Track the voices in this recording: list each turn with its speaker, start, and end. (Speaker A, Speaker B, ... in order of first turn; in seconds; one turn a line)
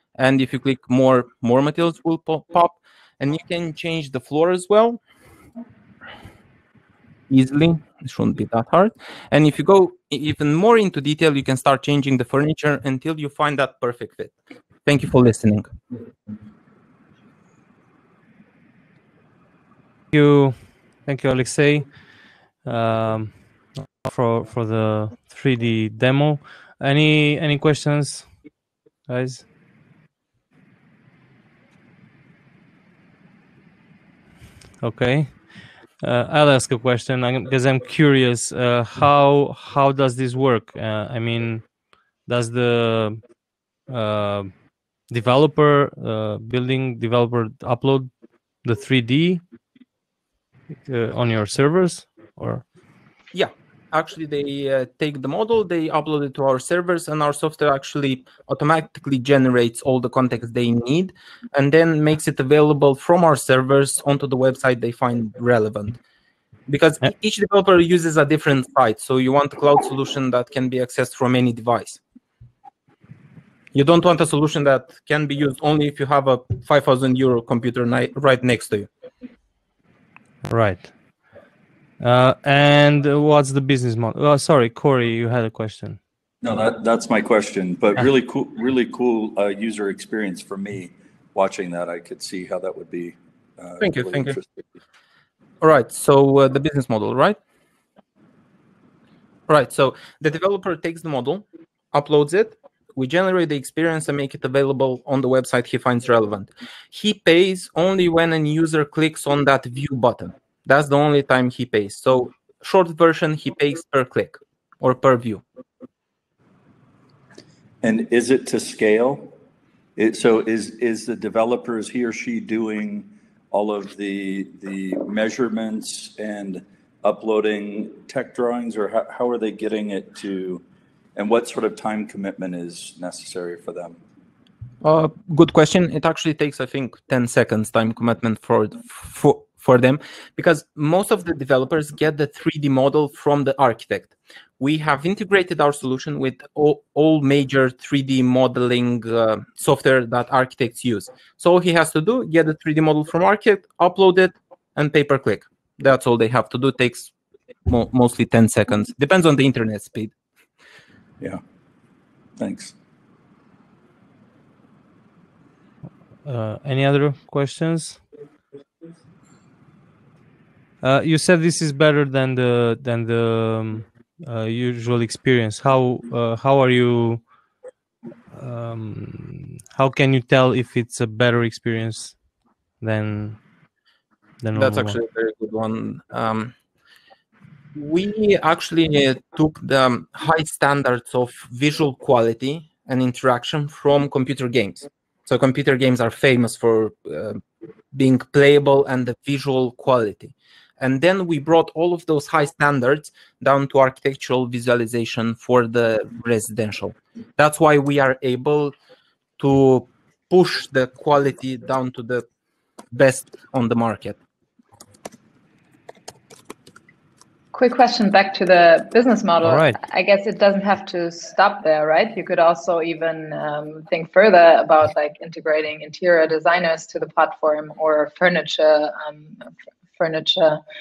Speaker A: 0.2-5.0
Speaker A: 7.3-15.7
Speaker B: 20.1-21.9
Speaker B: 22.6-23.3
Speaker B: 24.0-28.3
Speaker B: 29.1-29.4
Speaker B: 34.8-35.4
Speaker B: 36.0-41.6
Speaker B: 42.2-43.2
Speaker B: 43.9-44.5
Speaker B: 45.1-48.1
Speaker B: 48.6-49.4
Speaker B: 50.9-52.6
Speaker A: 53.3-66.0
Speaker A: 66.7-72.0
Speaker A: 73.7-78.9
Speaker B: 80.4-80.9
Speaker B: 82.0-86.0
Speaker C: 86.4-94.4
Speaker A: 93.8-94.4
Speaker A: 95.6-97.4
Speaker A: 99.5-115.4
Speaker C: 117.8-119.3
Speaker C: 120.0-130.6
Speaker C: 131.2-134.0
Speaker A: 134.8-157.1
Speaker A: 157.7-160.1
Speaker C: 162.4-162.7
Speaker B: 166.2-168.0
Speaker B: 170.8-177.2
Speaker B: 178.3-182.2
Speaker B: 182.8-183.4
Speaker B: 184.4-185.0
Speaker A: 184.5-186.5
Speaker A: 187.7-197.4
Speaker A: 197.9-208.7
Speaker A: 209.4-212.2
Speaker A: 212.9-214.2
Speaker D: 217.5-229.4
Speaker B: 219.4-219.8
Speaker D: 230.0-230.6